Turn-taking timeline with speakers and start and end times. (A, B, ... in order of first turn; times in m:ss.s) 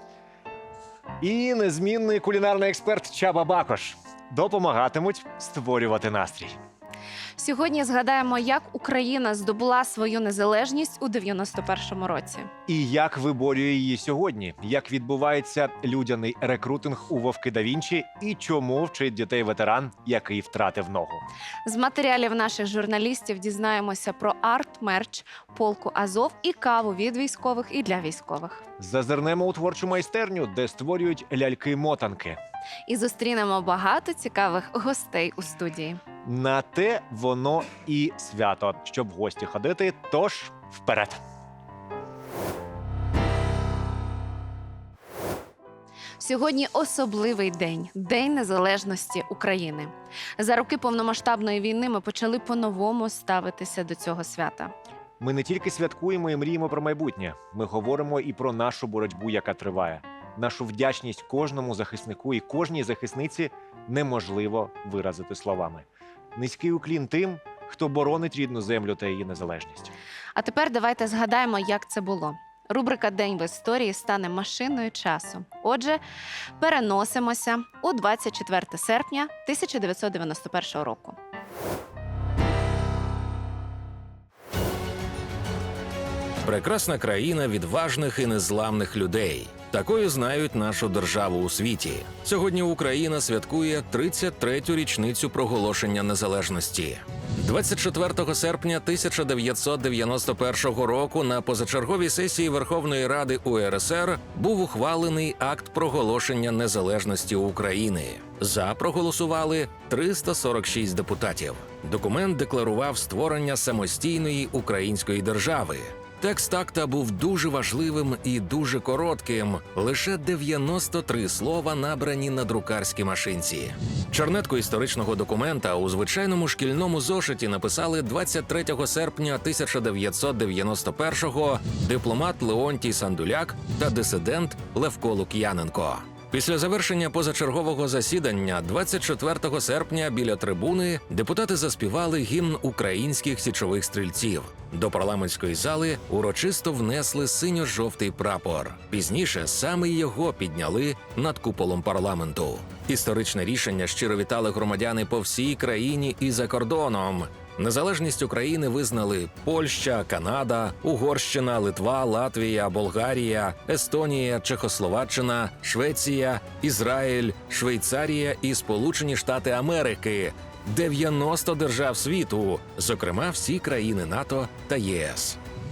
0:01.2-0:06.6 A
0:07.4-0:12.5 B
0:12.7-0:21.2 A
0:21.6-0:28.6 B
0:28.8-0:32.4 A
0:32.9-0:36.0 B
0:36.2-0:41.2 A
0:46.2-0:54.7 B
0:55.2-1:09.9 A
1:10.3-1:16.0 B
1:16.6-1:21.2 B
1:26.4-2:55.4 C